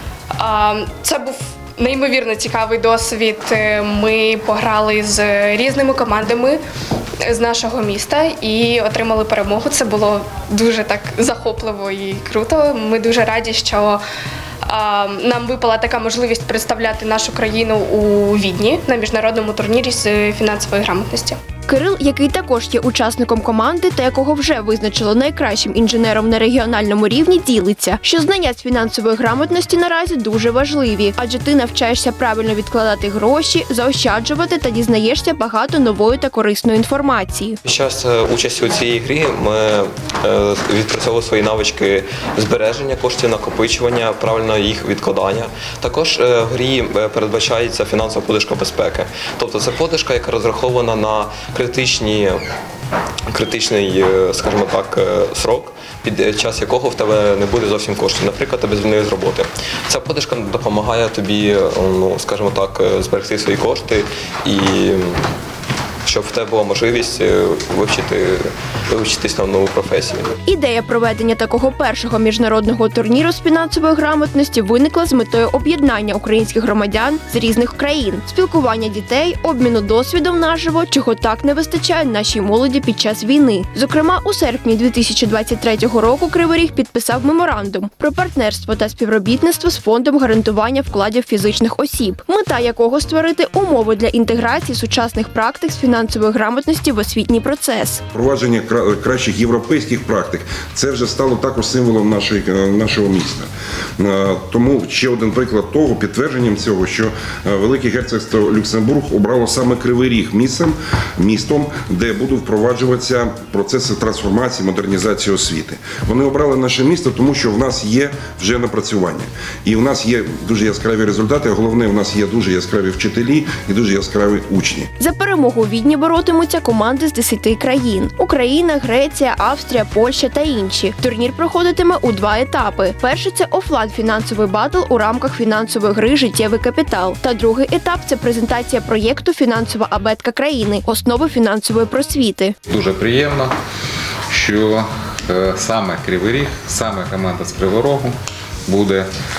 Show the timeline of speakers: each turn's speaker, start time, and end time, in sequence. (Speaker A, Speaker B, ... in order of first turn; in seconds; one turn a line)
Speaker A: 0.4-6.6
Speaker A: 7.2-14.0
Speaker A: 14.7-21.4
Speaker B: 21.7-37.6
Speaker C: 37.7-52.4
Speaker C: 53.3-65.2
Speaker C: 66.0-70.3
Speaker B: 70.5-98.0
Speaker D: 98.1-124.9
Speaker B: 125.0-142.6
Speaker E: 142.7-143.5
Speaker E: 144.3-148.2
Speaker E: 148.7-149.1